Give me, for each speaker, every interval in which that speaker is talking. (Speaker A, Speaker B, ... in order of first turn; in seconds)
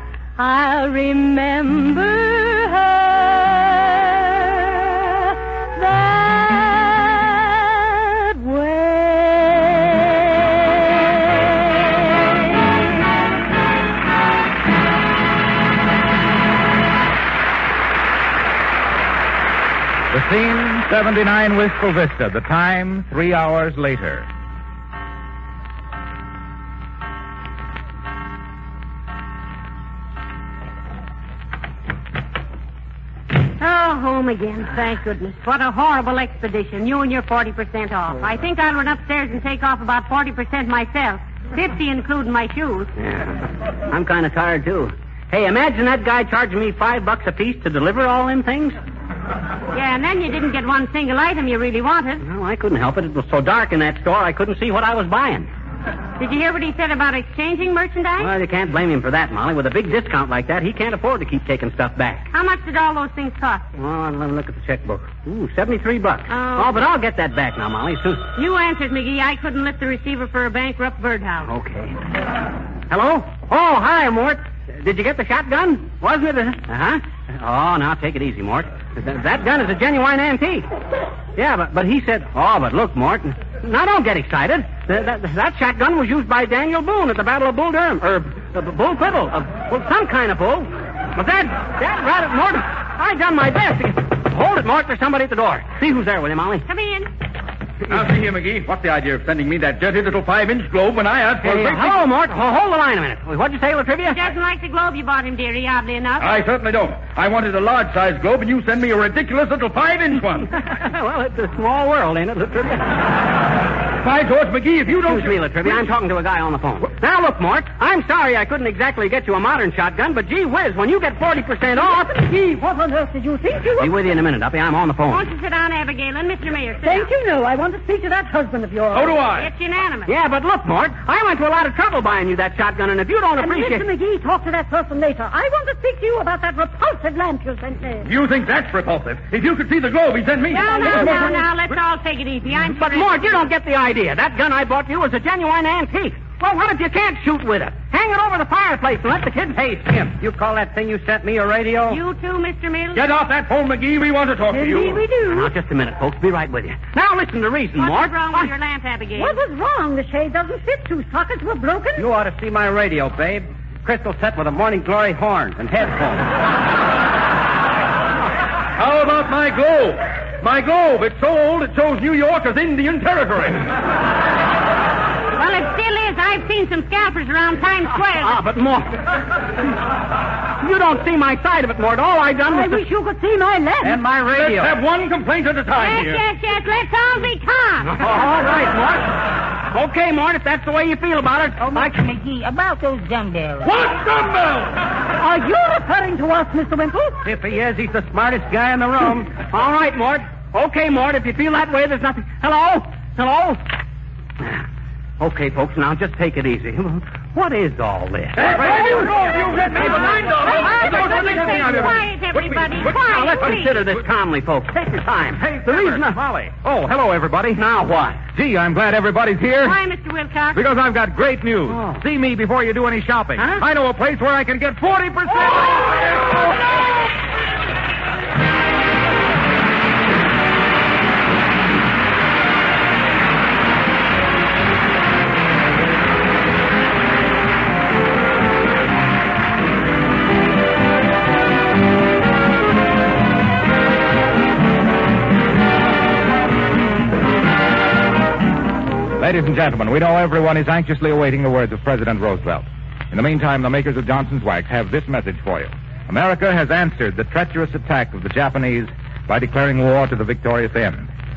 Speaker A: 0.4-12.7
Speaker B: 20.1-24.3, 211.5-213.7, 215.4-217.6, 218.3-219.8, 220.5-226.2, 249.2-261.1
Speaker C: 33.6-42.9, 49.7-52.2, 56.2-58.3, 62.3-63.6, 66.3-66.9, 68.3-71.5, 96.7-97.1, 104.1-106.3, 125.1-127.1, 129.3-130.1, 140.5-143.5, 151.9-153.1, 157.8-159.4, 175.4-178.4, 185.8-188.0, 210.4-213.8, 219.6-220.6
Speaker D: 43.0-48.8, 52.2-55.5, 58.2-62.3, 63.8-68.3, 71.4-72.0, 72.9-80.7, 81.4-96.7, 101.4-104.2, 110.5-112.9, 114.9-122.1, 123.8-125.2, 130.1-133.9, 142.6-152.0, 155.2-158.5, 162.0-166.3, 178.2-179.0, 180.6-182.8, 183.8-184.7, 187.9-189.1, 189.7-191.8, 197.2-203.6, 205.2-211.1, 212.8-216.2, 217.5-218.2, 221.7-222.0
Speaker E: 97.9-102.0, 106.2-110.5, 114.0-115.9, 128.9-129.5, 138.0-141.4, 152.9-155.1, 168.8-173.7, 184.3-186.2, 193.6-194.8, 208.4-211.9
Speaker F: 121.7-124.0, 126.8-129.2, 133.4-138.1, 140.5-141.4, 154.5-155.5, 159.2-162.1, 182.5-184.0, 195.2-197.2
Speaker G: 191.7-193.7